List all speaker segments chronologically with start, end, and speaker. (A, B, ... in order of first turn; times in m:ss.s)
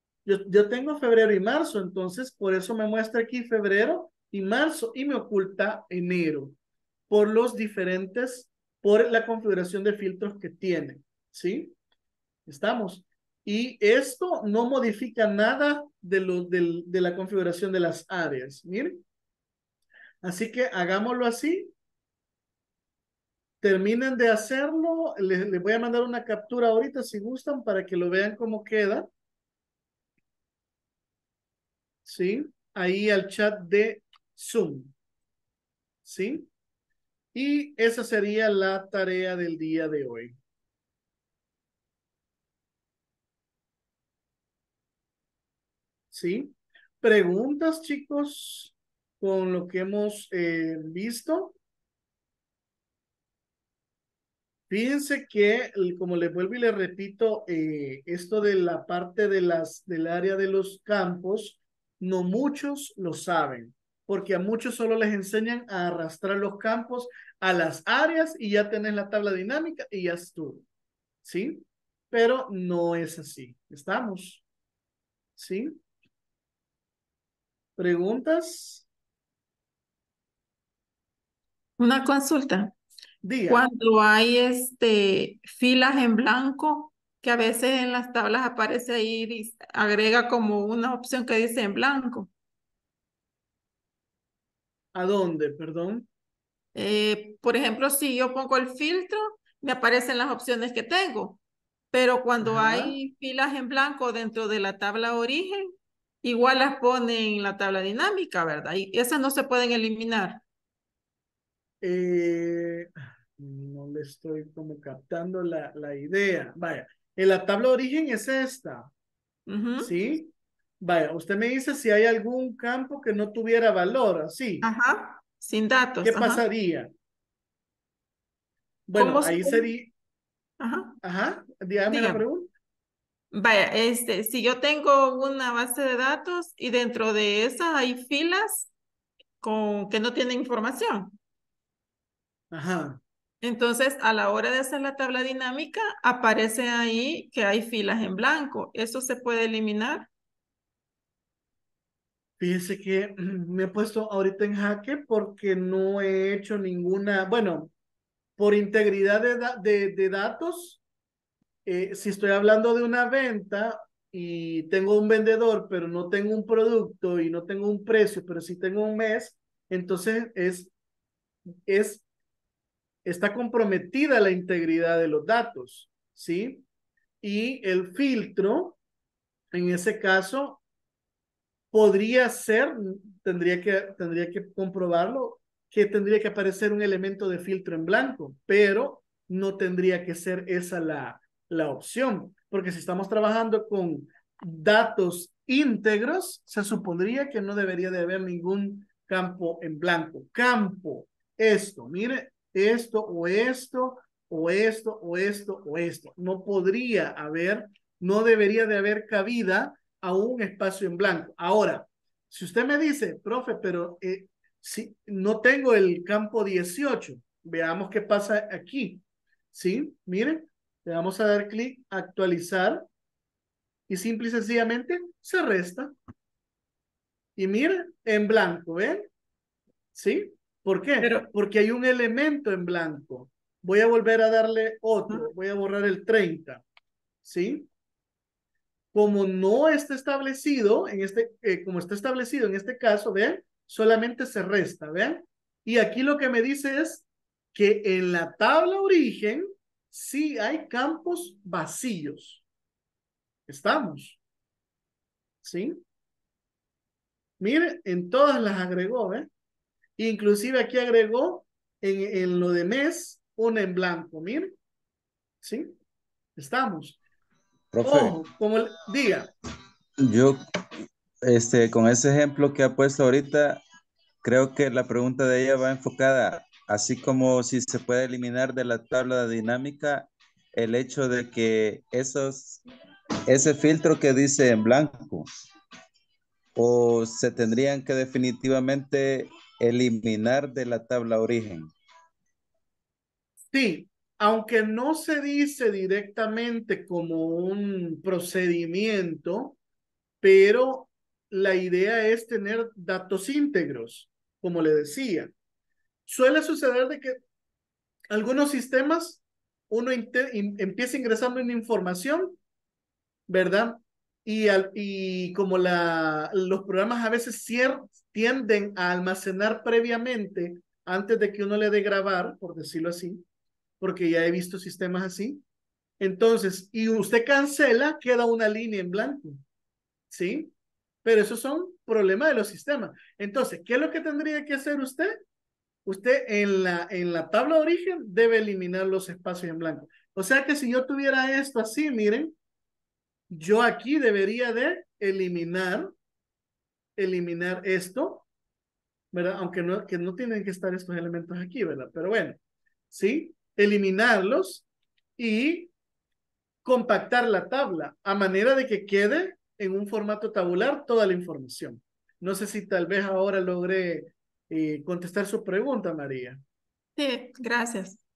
0:00.2-0:06.6 A
0:07.1-0:11.7 A
0:12.5-0:19.0 A
0:20.2-0:21.7 A
0:23.6-0:29.1 A
0:32.0-0:34.9 A
0:36.0-0:36.5 A
0:37.3-0:40.3 A
0:46.1-0:51.5 A
0:54.7-1:10.6 A
1:11.2-1:14.4 A
1:15.4-1:15.8 A
1:17.8-1:18.8 A
1:21.8-1:22.7 B
1:23.2-1:23.6 A
1:23.5-1:32.3 B
1:34.9-1:36.1 A
1:36.7-1:41.4 B
1:41.9-1:45.7 B
1:42.4-1:43.0 A
1:46.2-1:50.4 B
1:51.8-1:58.9 A
1:59.5-1:59.9 B
1:59.8-2:00.3 A
2:00.8-2:04.7 A
2:04.6-2:06.4 B
2:06.0-2:06.9 A
2:08.9-2:09.9 A
2:08.9-2:09.7 B
2:10.6-2:11.0 B
2:11.0-2:12.5 A
2:11.9-2:12.2 B
2:13.3-2:18.7 B
2:19.4-2:21.1 B
2:22.5-2:23.0 A
2:23.4-2:30.1 B
2:32.4-2:37.7 A
2:38.4-2:40.8 A
2:41.6-2:50.7 A
2:51.7-2:52.0 A
2:53.0-2:56.6 A
2:57.2-2:58.8 A
2:59.5-3:00.6 A
3:01.7-3:42.8 A
3:43.9-3:45.9 A
3:47.4-3:49.1 A
3:49.9-3:56.6 A
3:51.0-3:51.3 B
3:57.2-3:57.7 A
3:58.9-4:12.4 A
4:13.5-4:14.2 A
4:15.4-4:15.8 A
4:17.4-4:19.3 A
4:20.0-4:24.5 A
4:25.4-4:25.7 A
4:26.4-4:27.0 A
4:27.7-4:28.2 C
4:27.8-4:29.3 A
4:30.0-4:30.4 C
4:31.2-4:33.6 C
4:34.2-4:42.6 C
4:43.3-4:45.3 C
4:46.6-4:51.7 C
4:53.5-4:59.6 A
5:00.2-5:05.3 A
5:06.1-5:07.2 A
5:08.1-5:12.4 A
5:13.3-5:23.2 A
5:23.8-5:25.4 A
5:26.0-5:29.4 A
5:30.1-5:30.5 A
5:31.0-5:35.2 A
5:35.8-5:42.3 A
5:43.3-5:45.9 A
5:47.0-5:48.2 A
5:49.1-5:52.4 A
5:52.9-5:54.6 A
5:55.2-5:55.7 A
5:56.6-6:06.4 A
6:07.0-6:08.0 B